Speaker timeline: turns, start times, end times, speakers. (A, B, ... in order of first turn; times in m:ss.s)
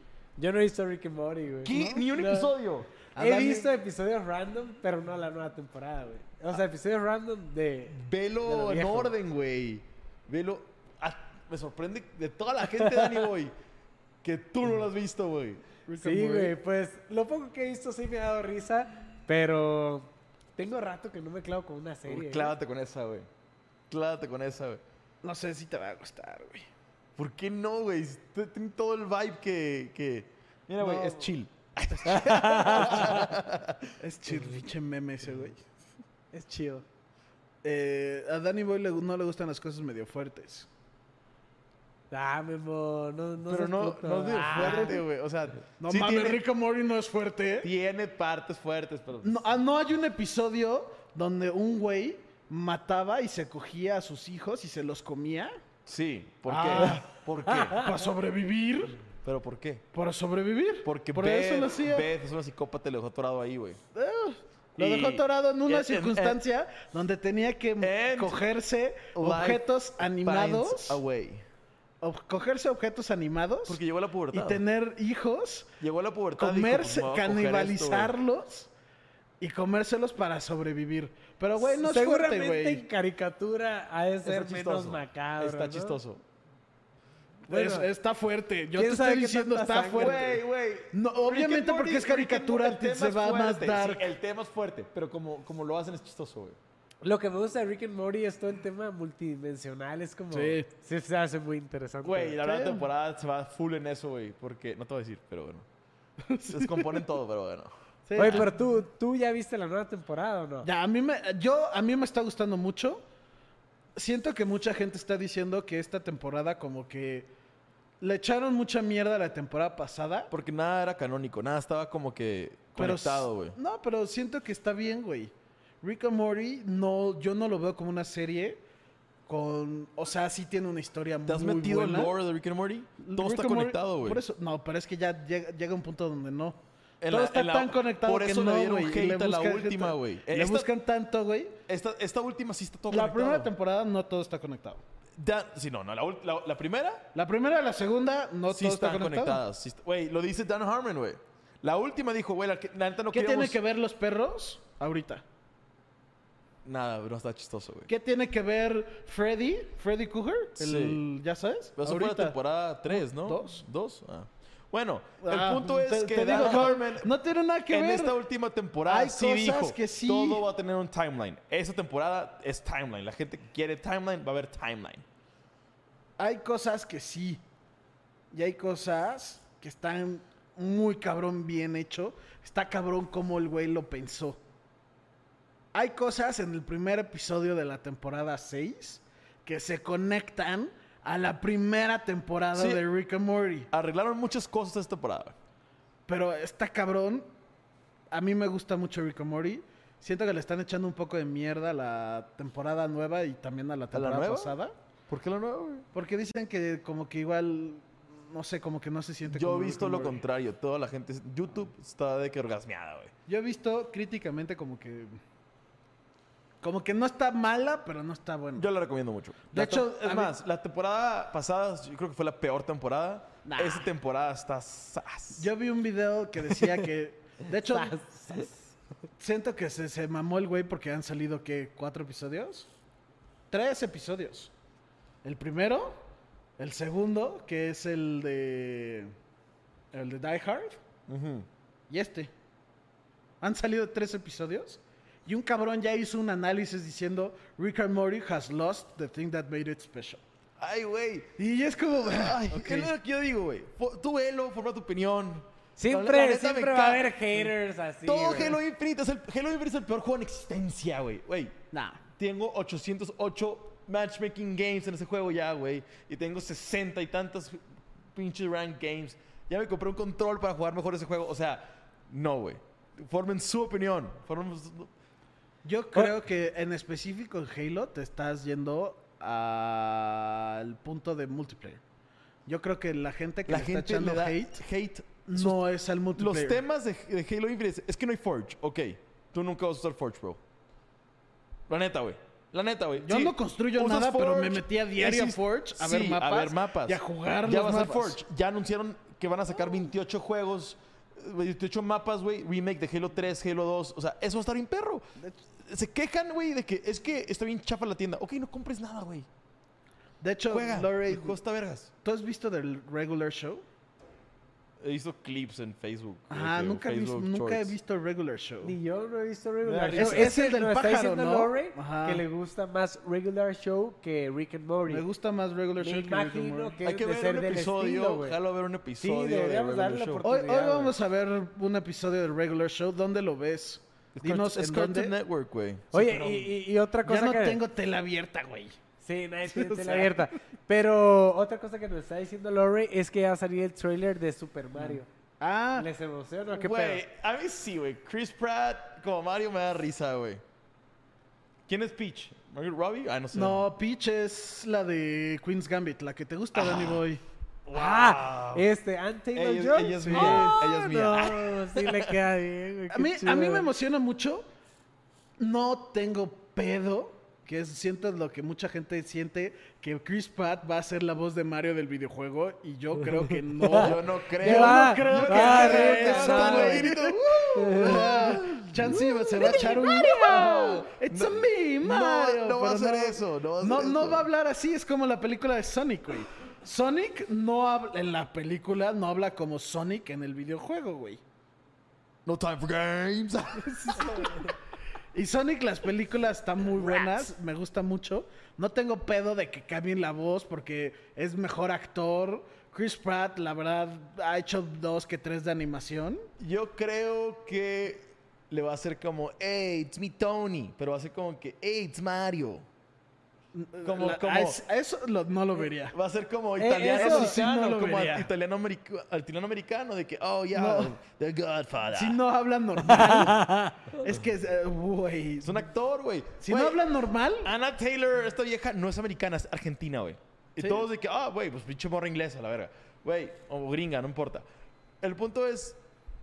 0:00.4-0:02.5 A
0:01.6-0:02.9 B
0:01.7-0:02.0 C
0:03.1-0:03.7 C
0:03.2-0:09.1 A
0:07.9-0:13.5 B
0:12.8-0:13.1 A
0:14.2-0:15.6 B
0:15.8-0:16.5 C
0:16.0-0:22.5 A
0:22.1-0:23.3 B
0:23.9-0:24.8 B
0:25.2-0:26.7 C
0:27.2-0:33.9 B
0:30.8-0:31.3 C
0:32.0-0:33.2 A
0:32.8-0:33.2 C
0:34.0-0:35.6 C
0:36.3-0:36.8 A
0:37.6-0:40.7 C
0:42.1-0:45.0 A
0:43.5-0:46.4 B
0:44.5-0:45.0 C
0:45.8-0:47.7 C
0:47.6-0:49.4 B
0:49.2-0:55.5 C
0:55.8-0:57.9 B
0:56.5-0:57.1 C
0:57.7-0:59.0 C
0:59.2-0:59.8 B
0:59.9-1:02.1 C
1:00.8-1:03.8 B
1:03.9-1:11.0 C
1:04.8-1:06.4 B
1:07.8-1:08.4 B
1:09.1-1:09.6 B
1:10.2-1:11.4 B
1:12.0-1:13.8 C
1:13.6-1:14.6 B
1:14.3-1:15.7 C
1:15.8-1:18.1 B
1:16.4-1:18.7 C
1:19.4-1:22.8 C
1:21.6-1:26.0 A
1:24.2-1:26.2 B
1:27.5-1:34.1 C
1:27.5-1:27.9 A
1:28.8-1:30.2 A
1:29.9-1:36.6 B
1:37.0-1:42.4 A
1:40.3-1:40.7 C
1:42.0-1:45.7 B
1:42.4-1:42.8 C
1:46.2-1:47.0 C
1:46.4-1:48.5 B
1:48.1-1:48.6 C
1:48.2-1:50.7 A
1:50.6-1:53.0 C
1:54.0-1:57.3 C
1:58.0-2:00.3 C
2:00.3-2:03.6 B
2:02.8-2:08.6 C
2:09.3-2:12.1 C
2:11.2-2:14.2 B
2:13.0-2:21.6 C
2:17.0-2:20.7 B
2:21.7-2:23.5 B
2:22.9-2:24.8 C
2:25.2-2:27.0 B
2:27.1-2:29.4 C
2:28.5-2:33.6 B
2:33.1-2:35.2 C
2:36.6-2:37.9 B
2:37.9-2:42.4 C
2:40.6-2:41.0 B
2:41.8-2:47.1 B
2:42.9-2:43.6 C
2:45.2-2:48.2 C
2:47.7-2:55.0 B
2:48.8-2:50.4 C
2:56.2-2:57.4 C
2:58.3-3:04.4 C
3:05.7-3:13.7 C
3:12.5-3:12.8 B
3:13.7-3:15.4 B
3:16.1-3:17.3 C
3:18.1-3:24.7 C
3:23.9-3:24.6 B
3:25.1-3:25.9 B
3:25.9-3:30.2 C
3:29.2-3:33.1 B
3:33.3-3:35.2 C
3:36.6-3:38.7 C
3:38.6-3:45.5 B
3:39.5-3:40.3 C
3:43.4-3:43.9 C
3:45.4-3:48.4 C
3:47.6-3:48.5 A
3:49.2-3:52.7 C
3:53.5-3:54.5 C
3:55.2-3:56.0 C
3:56.6-3:59.1 C
3:59.9-4:00.8 C
4:01.1-4:01.5 B
4:01.9-4:02.3 C
4:03.4-4:10.2 C
4:10.6-4:11.3 B
4:11.4-4:12.9 C
4:12.0-4:17.4 B
4:15.8-4:18.6 A
4:18.0-4:21.6 B
4:21.7-4:22.0 C
4:22.2-4:27.6 B
4:28.1-4:34.9 B
4:35.6-4:41.8 C
4:42.4-4:44.6 C
4:43.5-4:45.6 B
4:45.2-4:46.6 C
4:46.2-4:50.4 B
4:51.7-5:05.0 B
4:53.0-4:58.2 C
5:05.2-5:05.4 C
5:05.6-5:09.3 B
5:10.2-5:11.4 C
5:10.5-5:11.9 B
5:12.0-5:13.6 C
5:14.8-5:17.7 B
5:16.3-5:18.8 C
5:18.6-5:25.0 A
5:19.6-5:20.3 B
5:20.0-5:22.2 C
5:24.9-5:26.8 C
5:25.8-5:28.4 A
5:26.8-5:30.2 B
5:29.0-5:30.9 A
5:30.2-5:35.1 C
5:34.2-5:35.9 B
5:35.9-5:36.5 C
5:35.9-5:37.6 A
5:37.0-5:38.8 C
5:39.0-5:45.1 A
5:39.4-5:40.3 C
5:44.8-5:45.9 C
5:45.8-5:47.0 A
5:46.5-5:50.4 B
5:51.7-5:53.6 B
5:53.3-5:57.2 C
5:56.5-5:57.0 B
5:57.7-5:58.6 B
5:57.7-6:03.7 A
5:59.3-6:02.1 B
6:00.0-6:00.6 C
6:02.9-6:04.5 C
6:05.4-6:31.2 C
6:13.3-6:16.9 A
6:13.7-6:24.3 B
6:17.5-6:18.4 A
6:19.4-6:19.8 A
6:32.2-6:34.5 B
6:33.6-6:34.5 C
6:35.1-6:46.3 C
6:46.4-6:52.6 B
6:53.5-6:55.9 C
6:53.8-6:54.6 B
6:55.9-7:02.2 B
6:56.6-6:57.4 A
6:56.8-6:58.3 C
7:00.5-7:00.9 C
7:01.9-7:05.7 C
7:02.9-7:03.8 A
7:05.4-7:06.8 B
7:06.4-7:07.5 C
7:07.4-7:14.4 B
7:10.6-7:10.8 C
7:15.0-7:15.8 B